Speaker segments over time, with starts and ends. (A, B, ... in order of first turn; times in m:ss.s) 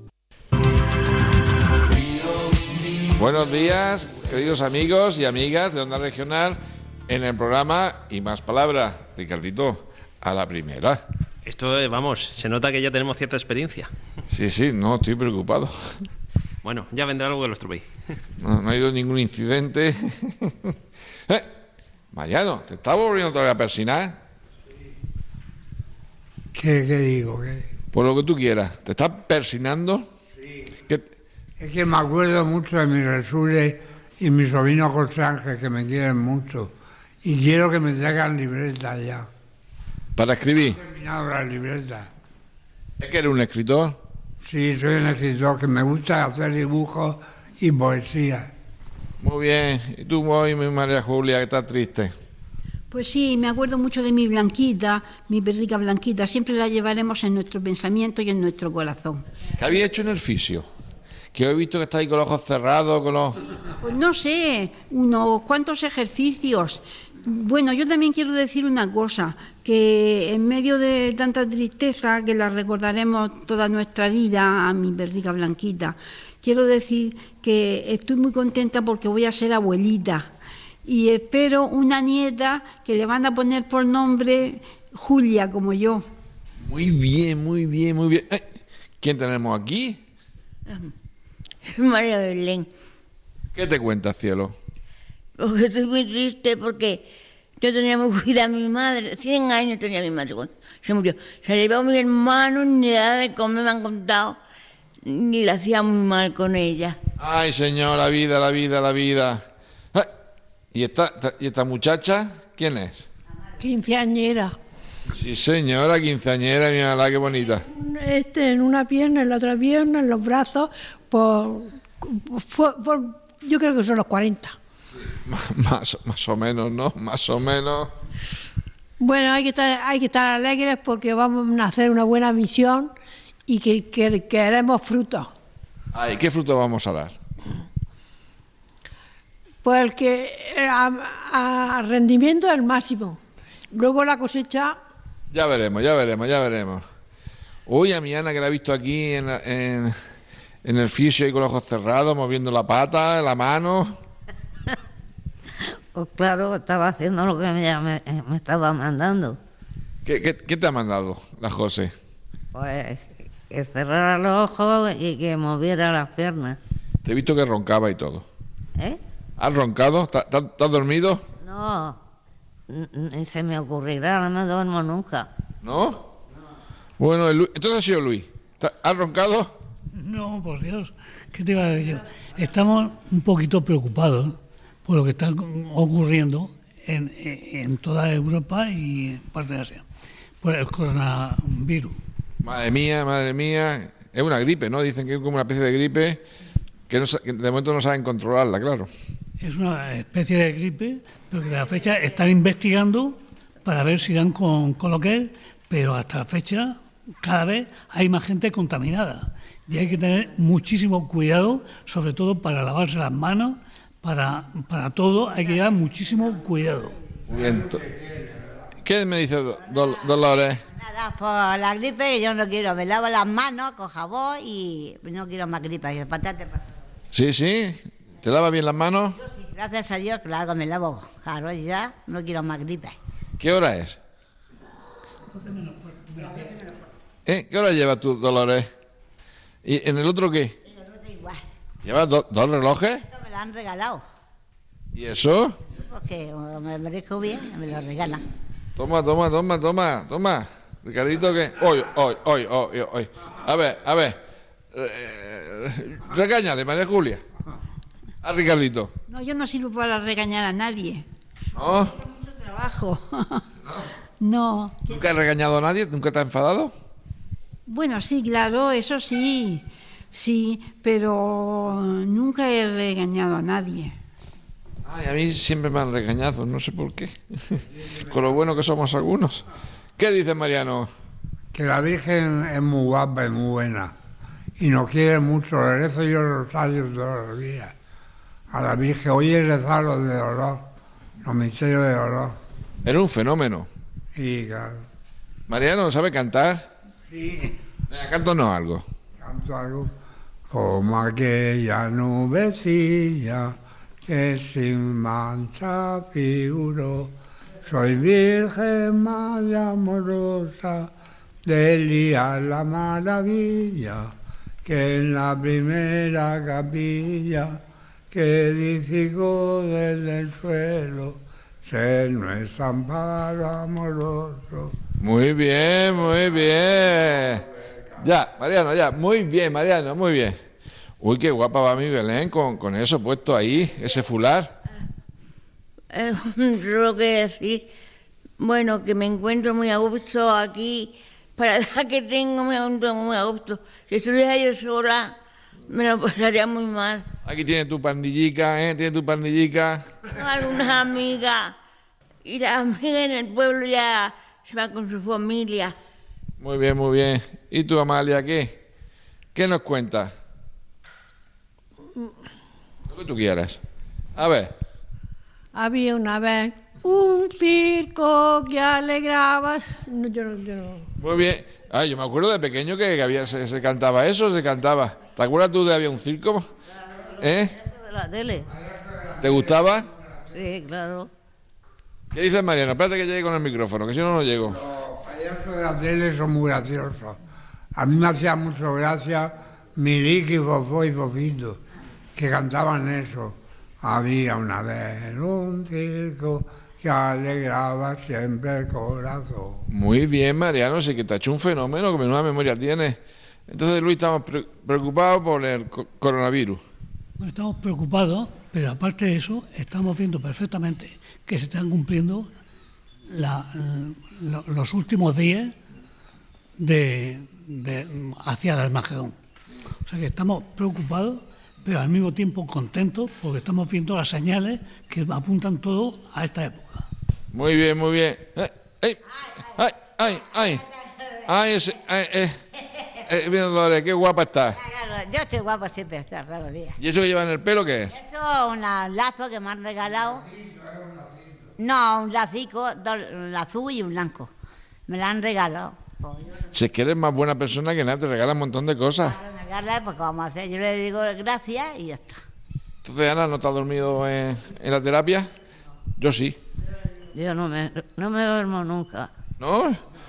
0:03.1-0:11.0 A
0:11.4-0:13.9 B
0:14.3-0:16.0 A
0:16.6-0:17.9 B
0:18.4-0:20.8 A
0:22.1-0:24.2 A
0:26.6-0:27.7 C
0:27.9-0:30.1 A
0:30.4-0:30.7 C
0:31.6-0:36.7 C
0:37.2-0:39.3 C
0:40.2-0:40.8 A
0:40.7-0:42.1 C
0:43.0-0:44.0 A
0:44.4-0:48.5 C
0:49.2-0:52.1 A
0:52.9-0:59.2 D
0:59.6-1:00.7 A
1:01.3-1:03.4 A
1:03.8-1:20.2 D
1:20.8-1:26.0 D
1:26.6-1:28.4 A
1:29.0-1:30.0 A
1:31.7-1:32.7 E
1:33.5-1:34.6 A
1:35.4-1:37.1 E
1:37.6-1:44.4 E
1:45.0-1:47.0 E
1:47.2-1:50.1 A
1:50.7-1:53.1 A
1:53.6-1:54.6 F
1:55.1-1:57.6 A
1:57.7-2:04.6 F
2:05.0-2:07.9 A
2:09.0-2:12.9 F
2:13.5-2:15.3 F
2:15.9-2:17.1 A
2:19.6-2:23.2 F
2:23.7-2:24.8 F
2:25.3-2:26.8 A
2:27.7-2:30.0 A
2:30.6-2:34.0 A
2:36.0-2:39.4 G
2:40.0-2:41.9 A
2:42.5-2:46.6 G
2:47.0-2:48.3 A
2:49.4-2:51.2 A
2:51.4-2:52.0 G
2:52.7-2:55.3 G
2:55.6-2:56.1 A
2:57.0-2:59.6 A
3:00.0-3:09.8 H
3:10.4-3:12.0 H
3:12.4-3:16.2 A
3:16.9-3:18.9 A
3:19.4-3:36.9 H
3:37.3-3:37.8 A
3:37.7-3:38.5 C
3:38.8-3:40.6 A
3:40.7-3:46.7 I
3:47.1-3:49.2 A
3:49.3-3:53.0 I
3:53.4-3:54.0 A
3:56.3-3:56.6 I
3:57.3-3:58.7 A
3:59.6-4:00.6 A
4:00.7-4:01.4 I
4:01.8-4:03.0 A
4:03.0-4:04.0 I
4:04.9-4:05.6 A
4:05.8-4:08.2 I
4:08.8-4:14.2 A
4:14.7-4:17.2 A
4:18.2-4:18.9 A
4:19.1-4:21.0 D
4:21.6-4:22.0 A
4:22.0-4:23.4 D
4:24.2-4:24.8 D
4:24.9-4:26.7 A
4:27.7-4:33.9 D
4:34.8-4:39.5 A
4:40.0-4:40.9 A
4:41.5-4:43.9 C
4:44.6-4:47.7 C
4:48.5-4:50.6 C
4:51.2-4:52.4 C
4:52.8-4:53.7 A
4:54.2-4:54.8 C
4:55.5-4:56.7 A
4:57.1-4:57.6 C
4:57.9-4:58.8 A
4:59.2-4:59.9 C
5:00.5-5:03.6 C
5:04.1-5:07.1 C
5:07.6-5:10.9 C
5:11.4-5:14.1 C
5:14.6-5:17.6 C
5:18.1-5:24.8 C
5:25.0-5:27.5 A
5:28.0-5:30.4 A
5:31.0-5:34.5 A
5:35.9-5:37.7 E
5:38.4-5:45.1 E
5:45.7-5:47.0 E
5:47.2-5:49.9 A
5:50.1-5:51.6 E
5:52.2-5:55.7 E
5:56.4-5:58.6 A
5:59.3-6:00.1 A
6:02.9-6:03.6 A
6:04.2-6:04.5 A
6:05.5-6:10.9 F
6:11.0-6:16.5 A
6:17.2-6:17.6 A
6:17.6-6:18.5 G
6:18.5-6:19.2 C
6:19.2-6:19.9 A
6:20.3-6:21.1 G
6:22.1-6:24.6 A
6:24.5-6:27.2 C
6:27.8-6:31.6 C
6:32.2-6:39.6 C
6:39.7-6:46.6 A
6:47.2-6:52.3 H
6:53.1-6:55.5 H
6:56.6-6:59.2 H
6:59.9-7:06.8 H
7:07.3-7:09.0 A
7:09.5-7:10.7 A
7:11.3-7:12.4 A
7:13.0-7:14.6 A
7:14.6-7:16.8 I
7:16.8-7:18.0 A
7:17.9-7:20.2 I
7:20.2-7:21.5 C
7:21.6-7:24.3 I
7:24.9-7:26.5 I
7:26.5-7:29.2 A
7:29.0-7:32.2 I
7:32.8-7:35.3 A
7:36.0-7:36.4 A
7:37.1-7:39.1 G
7:39.4-7:39.8 A